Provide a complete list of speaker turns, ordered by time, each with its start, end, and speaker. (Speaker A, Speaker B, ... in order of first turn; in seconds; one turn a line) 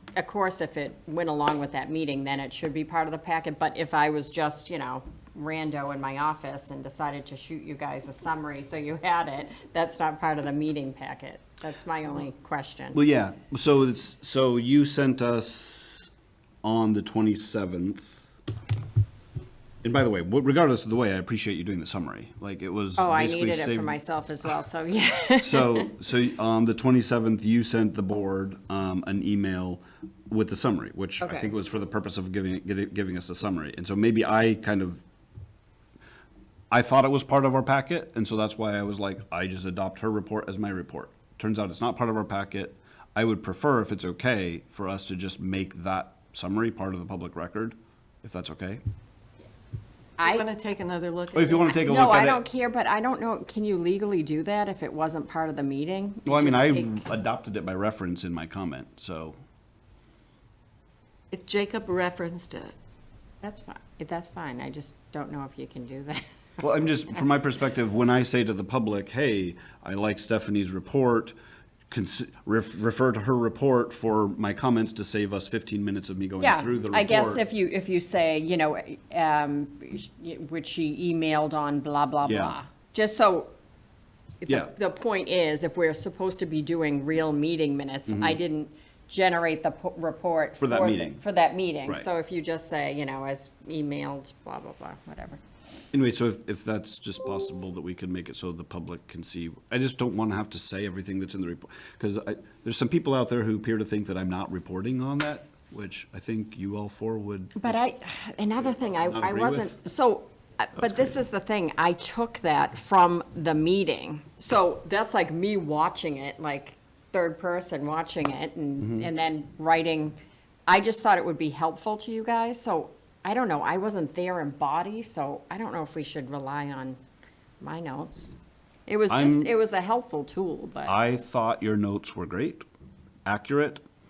Speaker A: 0.2-13.0
Speaker B: 12.9-16.1
Speaker B: 16.6-18.3
Speaker B: 19.8-24.0
Speaker A: 23.0-25.9
Speaker B: 25.4-35.0
Speaker A: 31.2-31.5
Speaker B: 36.7-48.8
Speaker A: 50.2-50.5
Speaker C: 50.2-51.8
Speaker B: 51.3-52.4
Speaker A: 51.7-57.1
Speaker B: 56.3-59.4
Speaker C: 61.3-62.7
Speaker A: 63.4-66.2
Speaker B: 66.6-71.3
Speaker B: 71.9-77.4
Speaker A: 76.4-83.5
Speaker B: 82.3-82.6
Speaker A: 84.4-95.4
Speaker B: 88.1-88.4
Speaker B: 90.6-91.2
Speaker B: 95.9-107.8
Speaker A: 107.6-120.2
Speaker B: 108.6-109.8
Speaker A: 120.7-127.0
Speaker A: 127.6-128.3
Speaker A: 128.9-131.0
Speaker B: 129.1-129.5
Speaker B: 130.9-132.7
Speaker B: 133.3-133.8